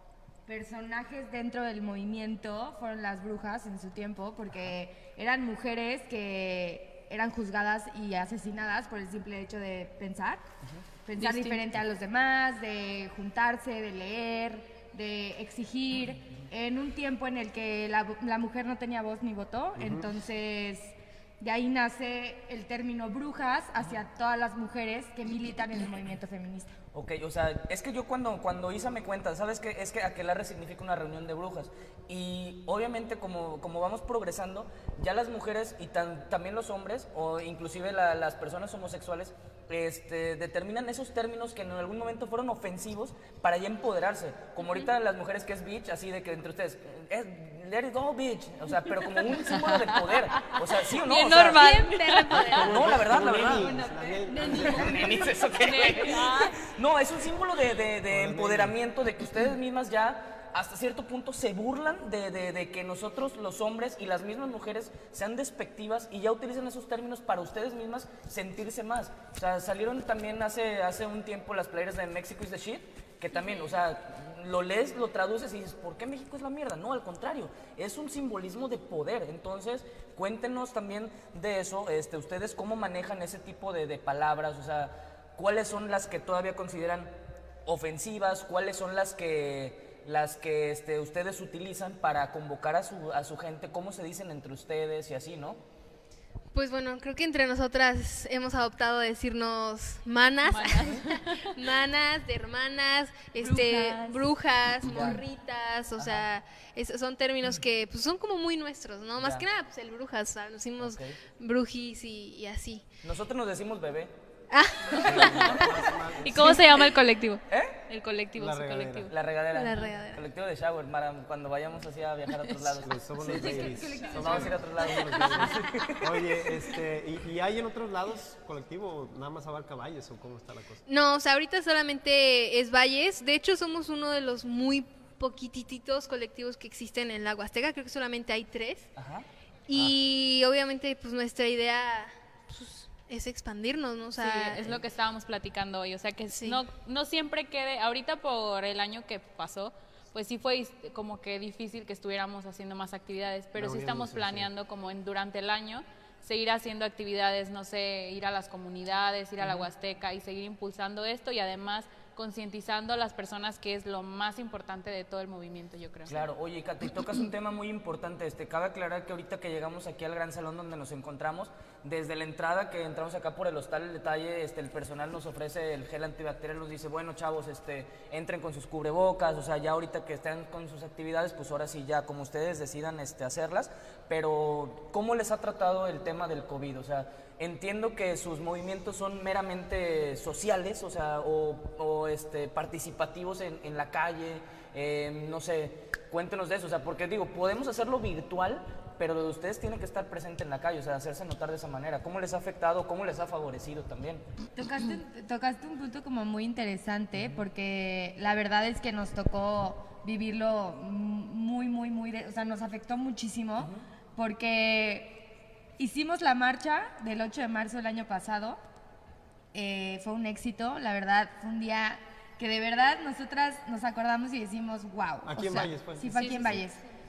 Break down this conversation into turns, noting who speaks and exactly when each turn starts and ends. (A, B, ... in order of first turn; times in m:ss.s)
0:00.5-0:10.5 A
0:11.1-0:26.7 A
0:11.2-0:11.6 B
0:19.8-0:20.1 C
0:26.9-0:51.7 D
0:49.3-0:52.6 B
0:51.4-0:53.0 E
0:52.4-0:53.8 D
0:52.5-0:55.1 C
0:54.3-0:54.7 B
0:54.3-0:55.1 A
0:54.4-1:27.1 D
0:55.5-0:56.6 B
0:58.1-0:58.8 C
1:27.7-1:35.6 D
1:36.5-1:52.8 E
1:40.5-1:41.5 B
1:43.4-1:44.2 B
1:44.9-1:45.2 D
1:46.0-1:46.2 D
1:49.2-1:49.4 D
1:50.8-1:51.2 D
1:53.0-1:54.1 D
1:54.5-1:55.5 E
1:54.9-1:55.6 B
1:55.0-1:56.6 C
1:55.1-1:55.6 D
1:56.2-1:59.1 B
1:57.5-1:57.8 D
1:58.4-1:59.1 C
1:59.1-2:06.2 D
1:59.5-2:00.2 E
2:02.8-2:10.8 C
2:03.4-2:04.5 B
2:10.9-2:18.9 E
2:19.0-2:19.2 D
2:19.7-2:24.8 E
2:24.2-2:46.1 B
2:26.3-2:26.6 E
2:33.6-2:34.5 C
2:39.4-2:39.7 D
2:46.1-3:24.2 D
3:24.6-3:38.6 A
3:27.2-3:27.4 D
3:39.5-3:46.8 A
3:45.2-3:46.6 C